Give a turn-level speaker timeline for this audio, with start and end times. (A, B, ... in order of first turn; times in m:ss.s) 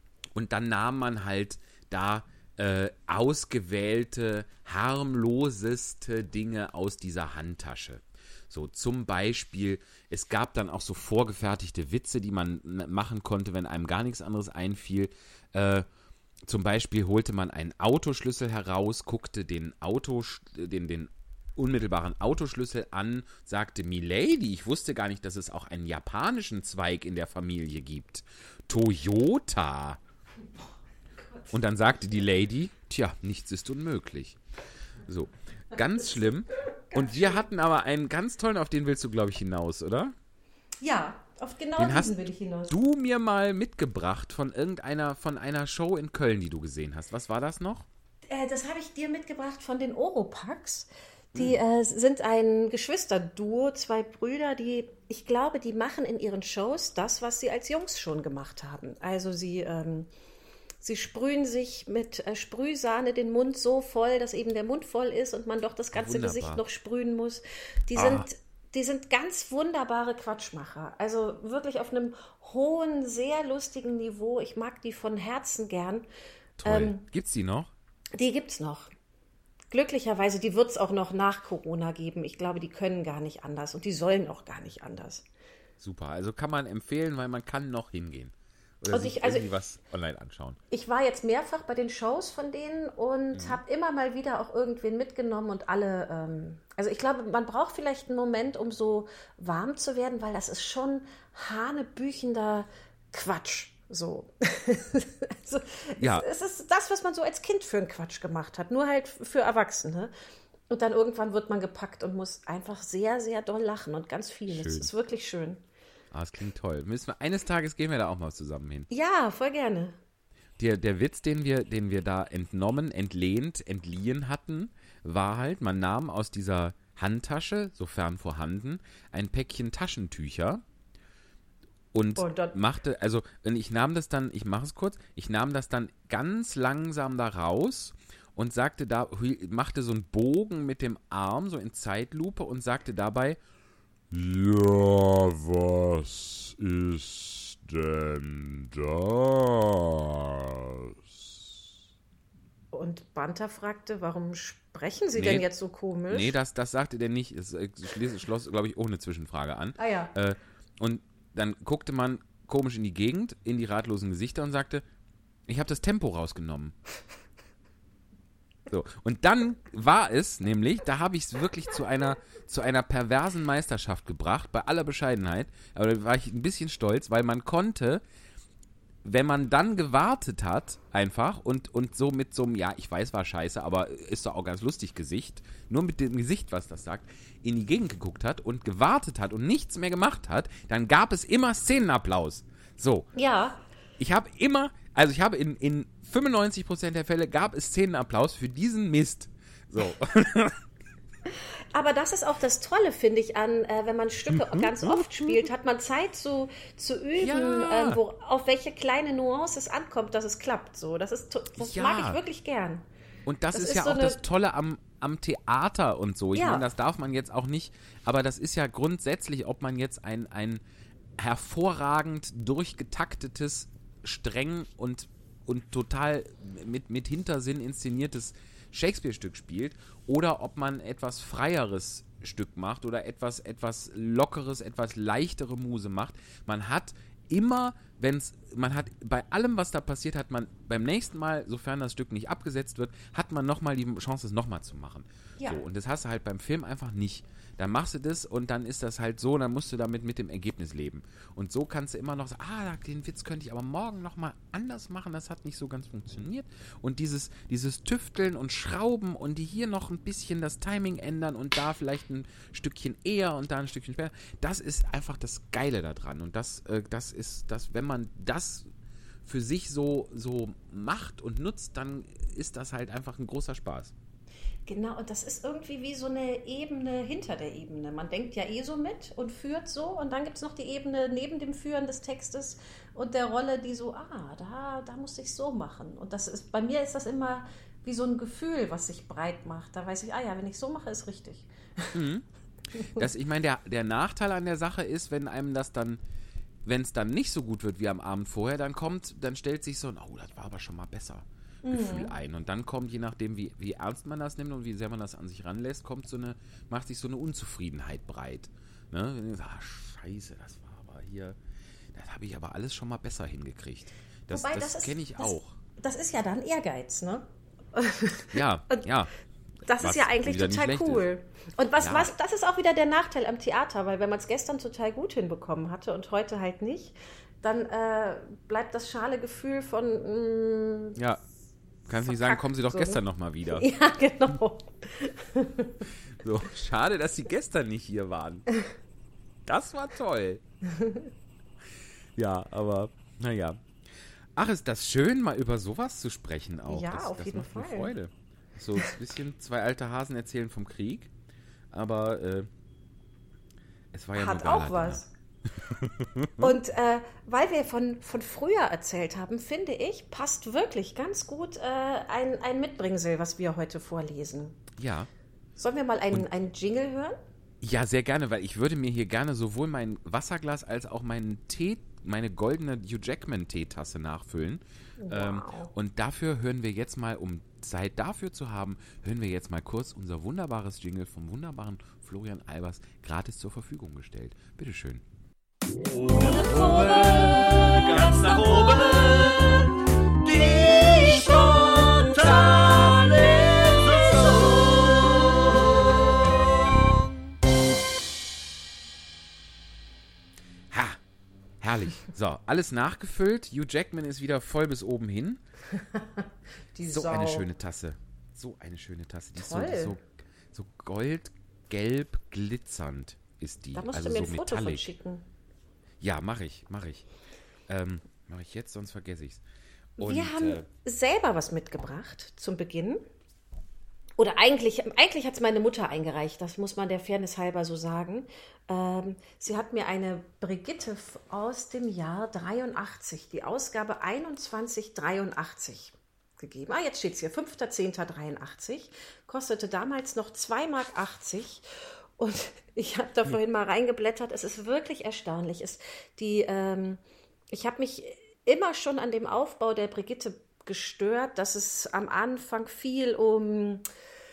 0:00.3-0:15.8 A
0:16.5-0:30.0 A
0:31.2-0:31.5 B
0:31.5-0:34.4 A
0:35.0-0:40.1 A
0:36.9-0:37.4 B
0:40.8-0:42.7 B
0:41.8-0:42.1 A
0:42.7-0:47.9 A
0:48.2-1:00.1 B
1:00.8-1:16.1 B
1:05.9-1:06.6 A
1:07.9-1:08.2 A
1:16.6-1:17.7 A
1:16.6-1:17.0 B
1:18.1-1:18.9 B
1:19.7-1:25.2 B
1:25.8-1:30.6 A
1:28.9-1:29.4 B
1:30.7-1:50.1 B
1:33.3-1:33.6 A
1:46.0-1:46.2 A
1:50.7-1:55.6 B
1:54.5-1:54.9 A
1:56.1-1:58.9 A
1:58.9-2:00.0 B
2:00.6-2:10.6 A
2:11.9-2:23.4 A
2:12.2-2:12.6 B
2:24.1-2:31.2 A
2:32.7-2:36.3 B
2:35.1-2:35.5 A
2:36.1-2:44.8 A
2:39.8-2:40.1 B
2:45.5-2:46.7 A
2:48.7-2:58.0 A
2:59.0-3:13.1 A
3:13.1-3:13.6 B
3:14.0-3:20.6 A
3:21.3-3:32.8 B
3:24.3-3:25.3 A
3:27.2-3:28.0 A
3:31.6-3:32.2 A
3:33.2-3:40.6 A
3:33.5-3:34.2 B
3:36.3-3:36.6 B
3:41.2-4:28.7 A
4:29.2-4:33.9 A
4:34.7-4:51.9 B
4:51.9-4:52.2 A
4:52.8-4:56.0 A
4:56.6-5:11.4 A
5:01.6-5:02.1 B
5:11.9-5:15.6 A
5:14.3-5:18.8 B
5:18.3-5:19.1 A
5:19.6-5:31.0 B
5:19.8-5:21.0 A
5:21.8-5:22.1 A
5:31.0-5:31.2 A
5:31.9-5:33.7 A
5:32.0-5:33.0 B
5:33.6-5:35.8 B
5:36.2-5:38.5 A
5:39.4-5:40.4 A
5:40.7-5:41.1 B
5:42.2-5:43.6 A
5:44.4-5:51.1 A
5:46.7-5:47.9 B
5:51.7-5:52.5 A
5:53.9-5:55.0 A
5:54.2-5:55.1 B
5:55.7-5:56.5 A
5:56.4-6:04.6 B
6:04.8-6:05.1 A
6:05.6-6:07.2 B
6:07.6-6:25.0 A
6:15.0-6:15.7 B
6:25.8-6:35.8 C
6:40.7-6:41.0 A
6:41.6-6:45.4 A
6:45.8-6:47.5 B
6:46.8-6:54.9 A
6:49.4-6:50.0 B
6:53.7-6:55.2 B
6:56.0-6:57.0 A
6:57.7-6:59.4 A
7:00.0-7:00.7 A
7:00.0-7:03.0 B
7:04.2-7:33.8 B